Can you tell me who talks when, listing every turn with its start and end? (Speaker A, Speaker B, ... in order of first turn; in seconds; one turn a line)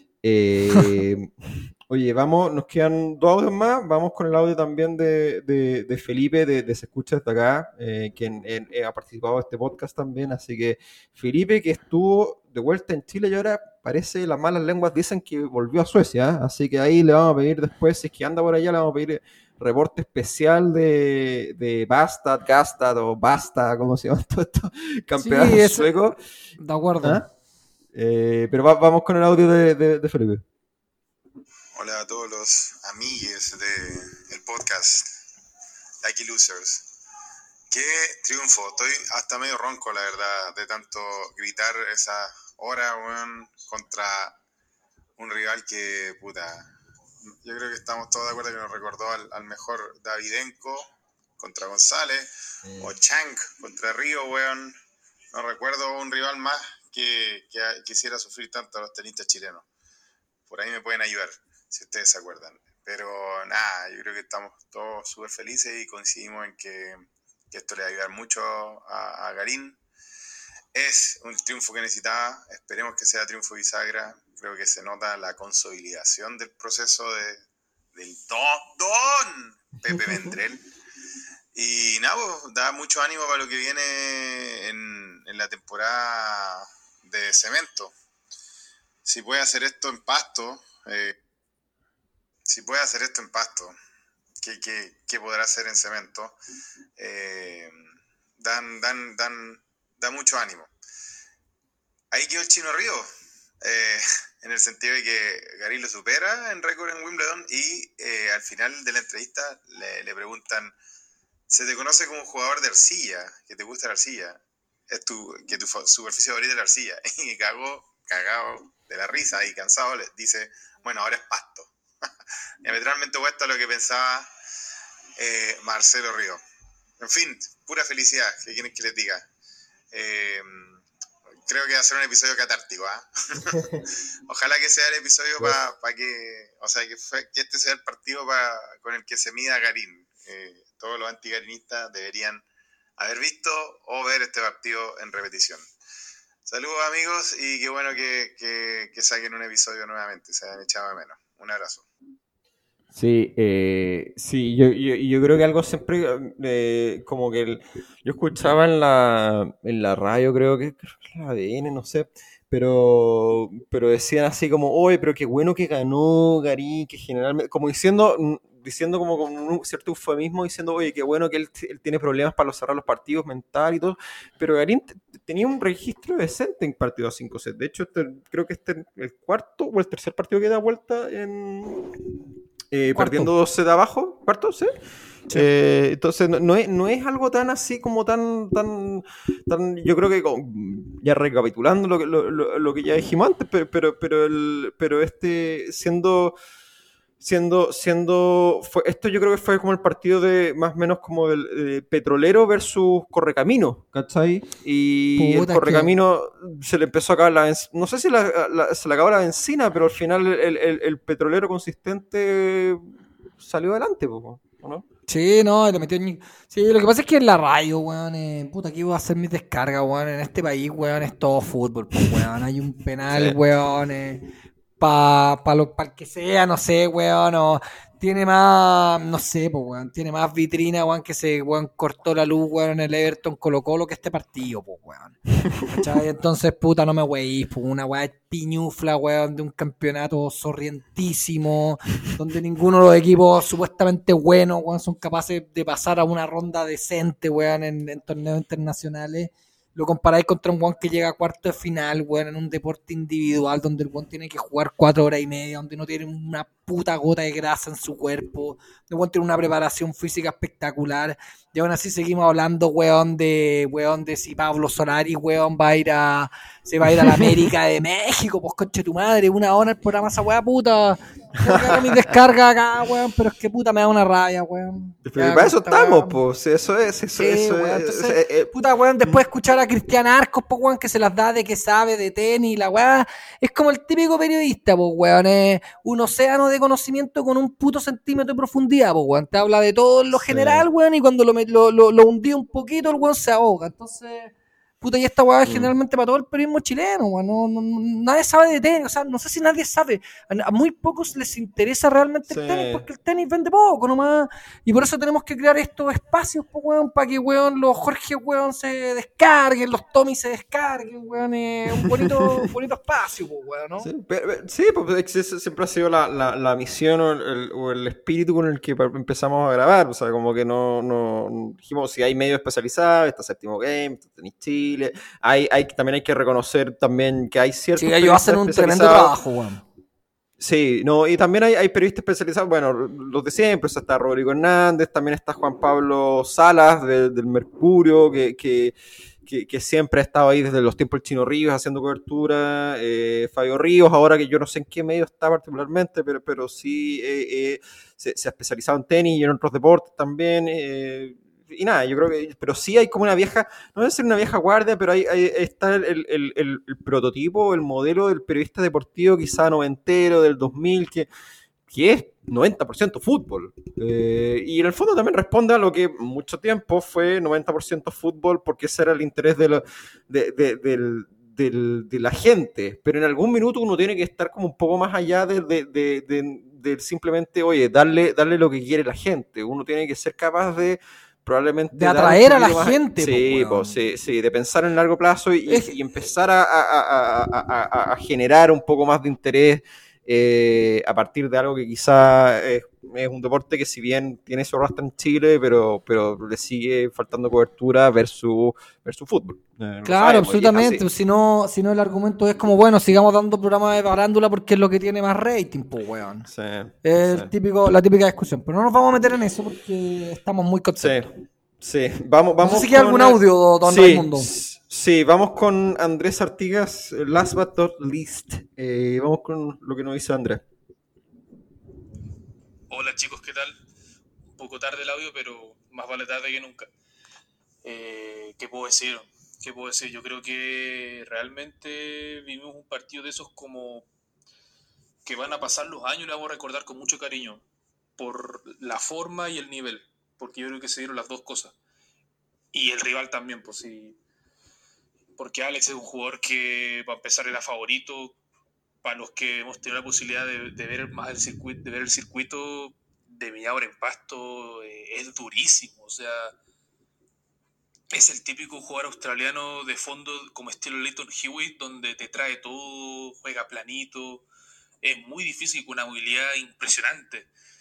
Speaker A: 0.2-26.2
Speaker B: 25.2-26.0
Speaker B: 26.6-27.3
Speaker A: 27.9-30.4
Speaker C: 31.8-35.1
Speaker C: 36.0-36.9
Speaker C: 37.7-44.4
Speaker C: 45.2-46.7
Speaker C: 47.4-54.8
Speaker A: 52.6-52.9
Speaker C: 55.3-59.7
Speaker C: 60.5-69.8
Speaker C: 70.7-77.4
Speaker C: 77.9-80.6
Speaker C: 81.5-87.9
Speaker C: 89.0-91.1
Speaker C: 92.5-93.7
Speaker C: 94.4-96.4
Speaker C: 97.0-97.8
Speaker C: 98.4-100.7
Speaker C: 102.1-103.1
Speaker C: 103.6-110.7
Speaker C: 111.5-121.7
Speaker C: 122.6-124.3
Speaker C: 125.2-126.4
Speaker C: 127.0-129.3
Speaker C: 129.9-130.8
Speaker C: 131.4-133.6
Speaker C: 134.3-142.4
Speaker C: 143.0-145.7
Speaker C: 146.4-151.8
Speaker A: 152.9-181.9
Speaker A: 182.7-184.8
Speaker B: 182.9-183.3
Speaker A: 185.3-196.4
Speaker A: 197.2-214.8
Speaker B: 205.2-205.9
Speaker B: 215.1-276.2
Speaker A: 223.1-223.4
Speaker A: 271.4-272.0
Speaker A: 275.1-278.5
Speaker B: 277.2-313.9
Speaker A: 290.1-290.7
Speaker A: 295.4-295.7
Speaker A: 302.3-302.8
Speaker A: 311.8-312.2
Speaker A: 313.8-329.1
Speaker B: 327.8-329.6
Speaker A: 330.4-361.1
Speaker A: 361.7-400.9
Speaker B: 381.7-383.8
Speaker B: 385.5-385.7
Speaker B: 399.9-406.3
Speaker A: 406.3-407.3
Speaker B: 406.8-411.1
Speaker A: 410.8-420.4
Speaker B: 412.4-414.3
Speaker D: 422.7-423.6
Speaker D: 424.4-426.7
Speaker D: 427.6-433.9
Speaker D: 435.1-437.4
Speaker D: 438.0-441.6
Speaker D: 442.5-444.0
Speaker D: 445.2-448.2
Speaker D: 448.8-456.3
Speaker D: 457.9-464.2
Speaker D: 464.8-467.3